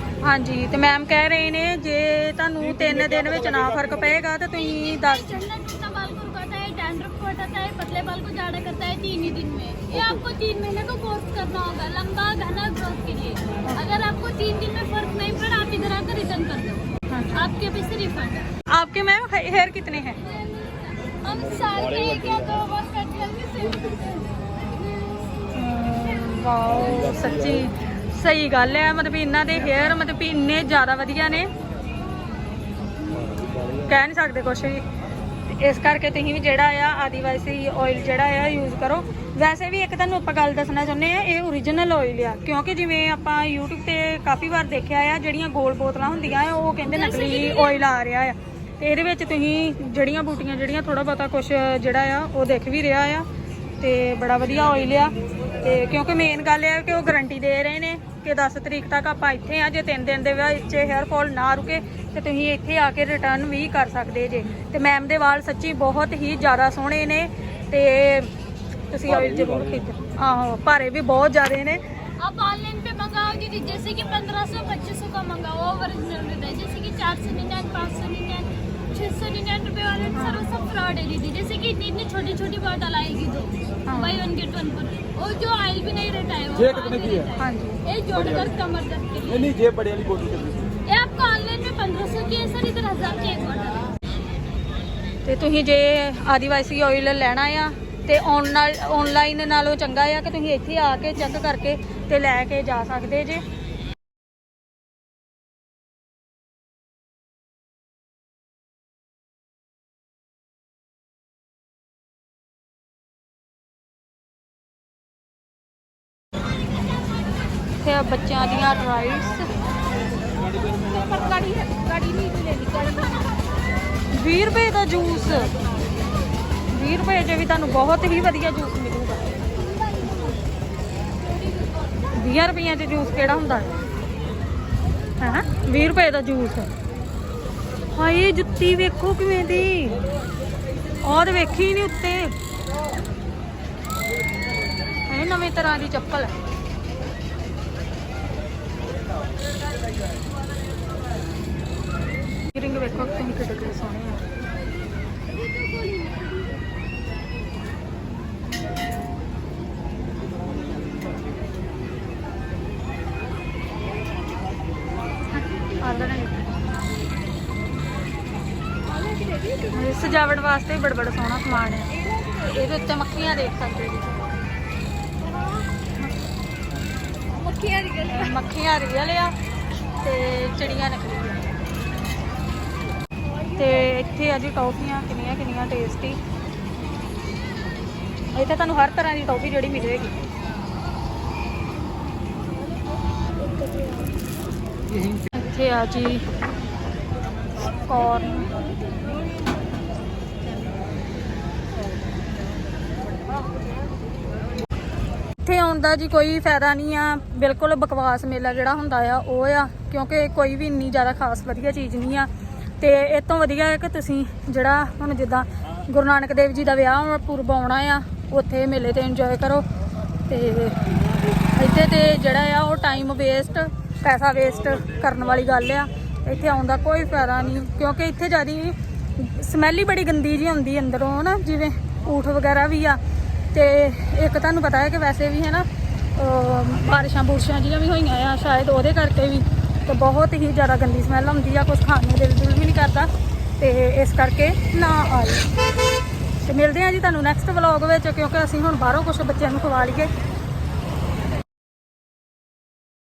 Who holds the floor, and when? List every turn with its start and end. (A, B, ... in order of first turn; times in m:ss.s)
0:00.2-0:05.4 A
0:04.6-0:18.5 B
0:17.1-0:17.5 A
0:18.7-0:20.2 A
0:20.2-0:24.2 B
0:21.7-0:22.5 C
0:25.5-0:31.5 A
0:26.8-0:27.7 C
0:33.3-0:33.8 C
0:33.8-0:34.8 A
0:35.5-0:53.3 A
0:46.9-0:47.8 B
0:53.8-1:08.3 A
1:08.9-1:11.8 A
1:09.1-1:09.8 C
1:12.2-1:29.5 B
1:20.1-1:20.5 A
1:23.9-1:24.3 A
1:26.5-1:27.4 C
1:27.4-1:27.8 A
1:28.2-1:28.5 C
1:29.2-1:30.7 C
1:30.9-1:33.9 B
1:35.2-1:43.4 A
1:57.8-1:59.5 A
2:00.5-2:03.4 B
2:04.1-2:05.5 A
2:06.7-2:09.3 A
2:09.6-2:10.4 B
2:12.1-2:13.8 A
2:15.2-2:16.7 A
2:18.0-2:20.0 A
2:21.0-2:22.4 A
2:25.1-2:26.4 A
2:32.5-2:34.2 A
2:35.4-2:36.6 B
2:45.7-2:46.5 A
2:48.9-2:50.2 B
2:49.7-2:54.3 A
2:51.9-2:52.5 B
2:55.2-2:55.7 B
2:57.3-2:58.4 B
2:58.1-2:59.4 A
3:00.0-3:01.5 A
3:03.2-3:04.0 B
3:03.6-3:06.2 A
3:08.3-3:10.2 A
3:13.4-3:14.1 B
3:15.3-3:16.2 A
3:17.7-3:18.6 A
3:25.4-3:39.6 A
3:40.3-3:40.9 A
3:41.4-3:53.0 A
3:53.5-4:05.5 A
4:06.4-4:10.1 A